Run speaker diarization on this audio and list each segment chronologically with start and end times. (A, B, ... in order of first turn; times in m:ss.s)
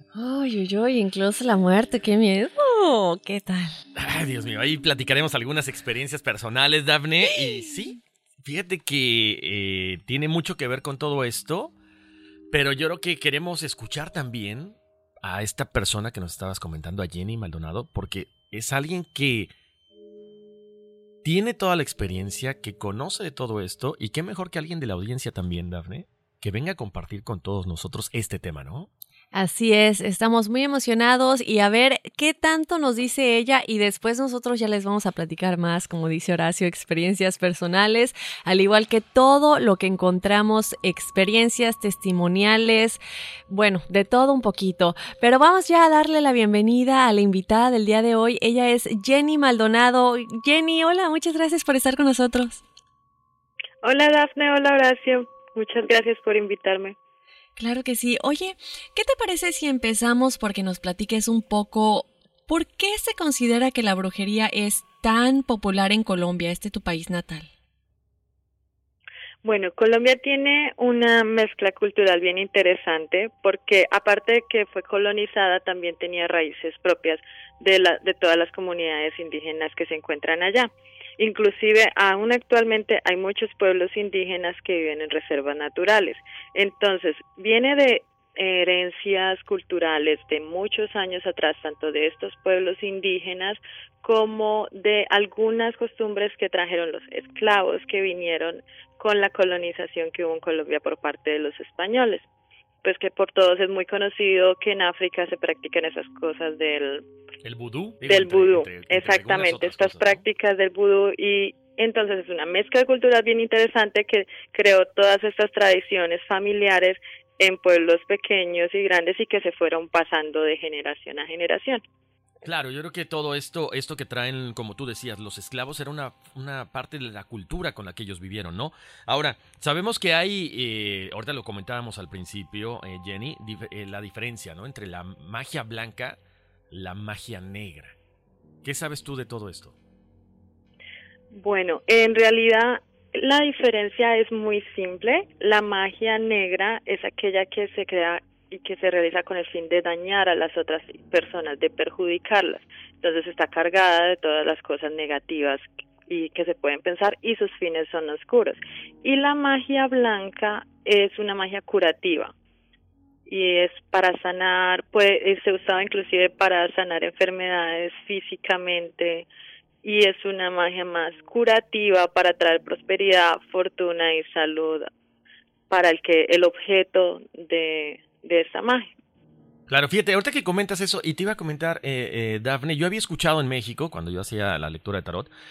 0:00.1-0:03.8 A
0:04.0-0:11.7 B
0:07.3-0:07.9 A
0:12.5-0:19.5 B
0:21.2-0:28.9 B
0:29.3-0:52.6 A
0:53.8-0:57.0 C
0:57.6-1:07.5 A
1:09.4-1:42.3 C
1:42.8-1:47.0 C
1:47.4-1:50.2 B
1:48.1-2:01.8 C
2:02.4-2:16.2 B
2:16.7-2:18.0 B
2:18.6-2:19.8 B
2:21.3-2:42.3 C
2:43.3-2:49.3 C
2:49.8-2:54.9 C
2:55.7-2:58.9 C
2:59.7-3:05.3 B